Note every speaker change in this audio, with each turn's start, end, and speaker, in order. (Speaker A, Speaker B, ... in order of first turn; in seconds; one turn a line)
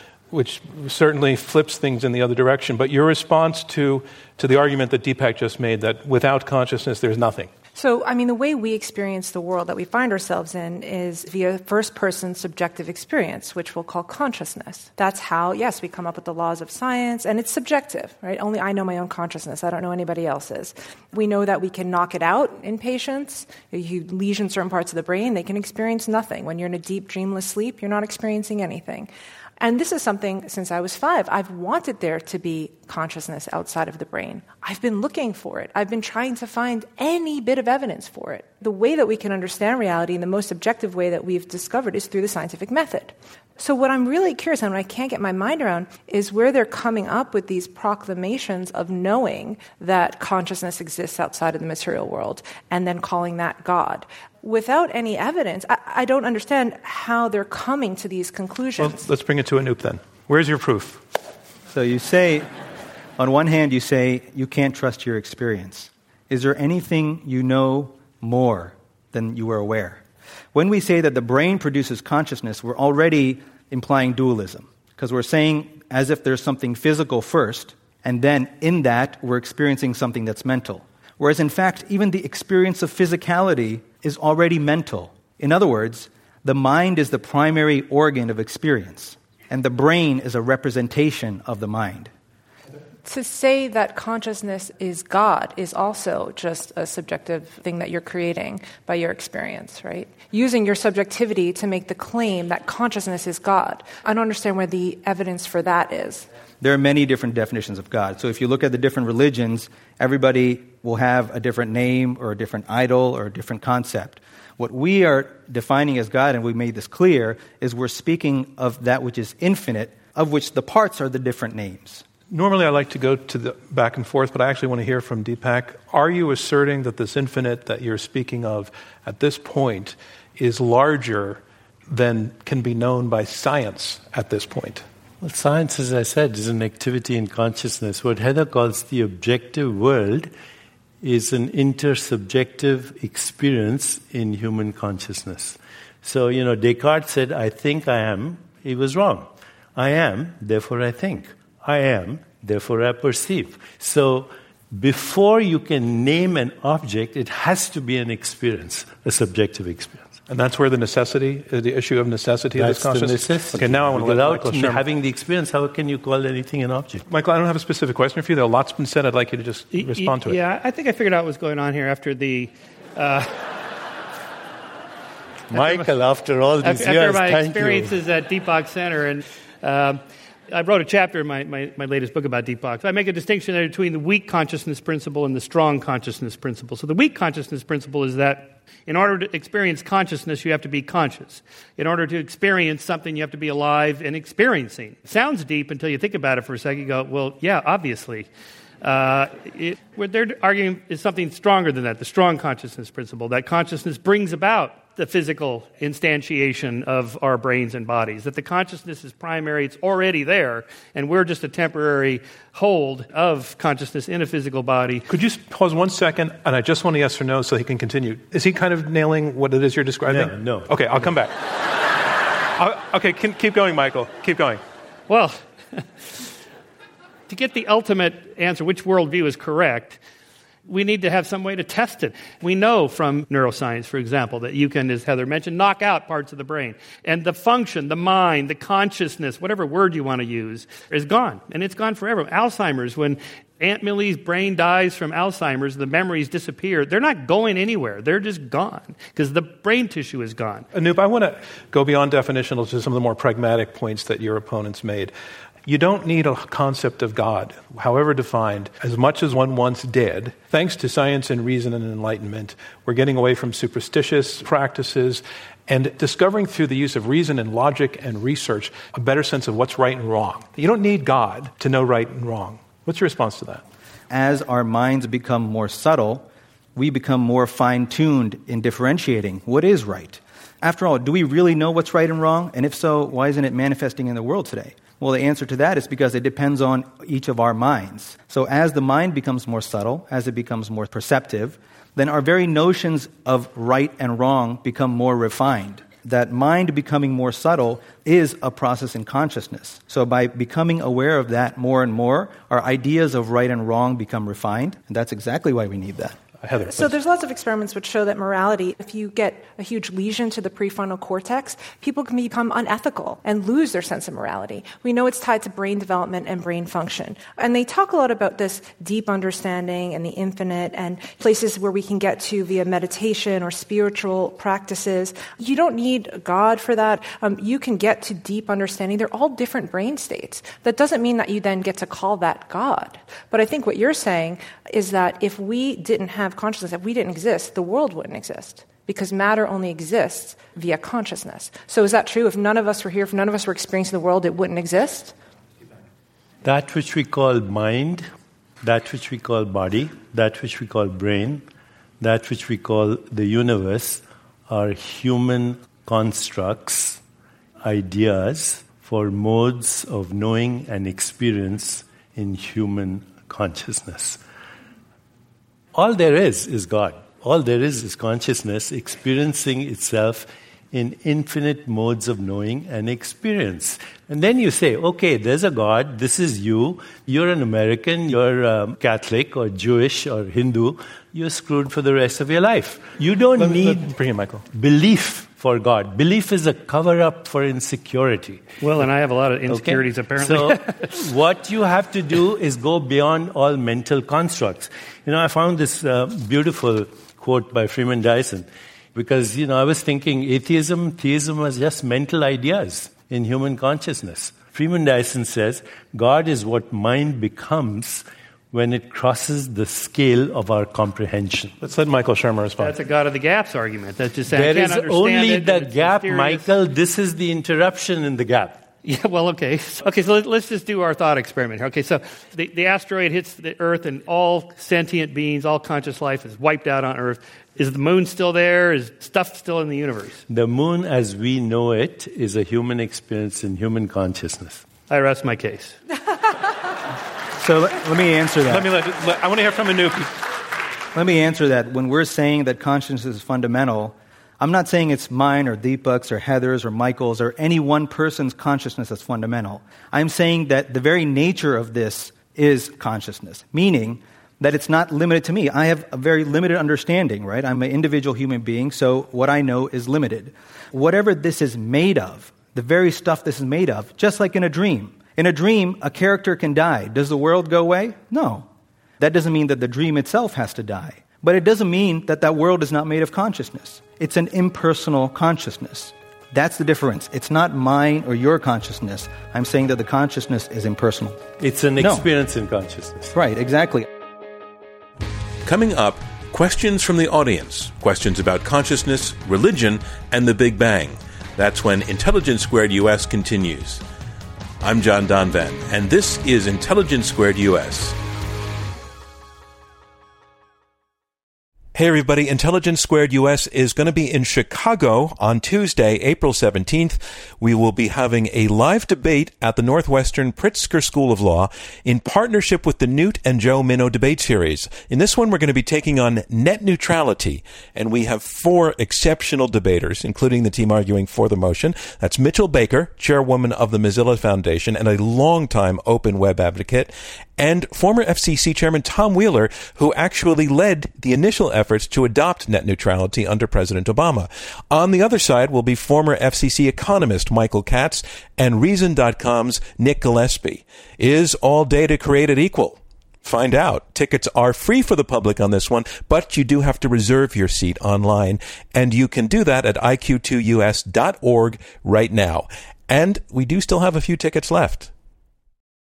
Speaker A: 0.3-7.5
Speaker B: 7.8-59.0
Speaker A: 58.8-61.0
Speaker C: 61.7-62.5
Speaker C: 63.2-70.0
Speaker C: 70.5-92.1
Speaker B: 93.0-106.3
Speaker C: 106.6-122.0
Speaker A: 122.3-134.8
Speaker D: 135.2-140.3
Speaker D: 141.0-160.2
Speaker A: 160.3-164.8
Speaker D: 162.6-167.1
Speaker A: 167.1-170.4
Speaker E: 169.7-173.4
Speaker D: 175.5-177.9
Speaker E: 175.5-175.9
Speaker E: 176.6-198.3
Speaker E: 198.8-215.1
Speaker A: 215.1-221.3
Speaker D: 220.1-221.1
Speaker A: 222.6-224.6
Speaker E: 225.1-226.2
Speaker E: 227.3-230.0
Speaker E: 230.7-250.7
Speaker A: 250.7-255.1
Speaker A: 255.7-273.6
Speaker C: 274.1-306.2
Speaker A: 306.4-306.9
Speaker B: 306.7-345.1
Speaker D: 346.4-348.1
Speaker D: 348.6-351.4
Speaker D: 352.0-357.0
Speaker D: 357.6-364.2
Speaker D: 365.7-383.9
Speaker A: 383.4-384.4
Speaker D: 384.5-388.4
Speaker E: 388.6-390.9
Speaker D: 389.5-411.6
Speaker A: 411.6-412.8
Speaker E: 412.6-416.5
Speaker D: 414.3-418.6
Speaker E: 418.8-430.2
Speaker D: 430.3-434.6
Speaker E: 434.9-435.8
Speaker C: 437.4-438.7
Speaker A: 438.5-440.1
Speaker C: 440.9-468.5
Speaker C: 469.0-481.2
Speaker D: 481.4-483.1
Speaker C: 481.8-482.1
Speaker C: 483.1-483.9
Speaker F: 485.4-493.8
Speaker F: 494.6-498.0
Speaker F: 501.7-554.9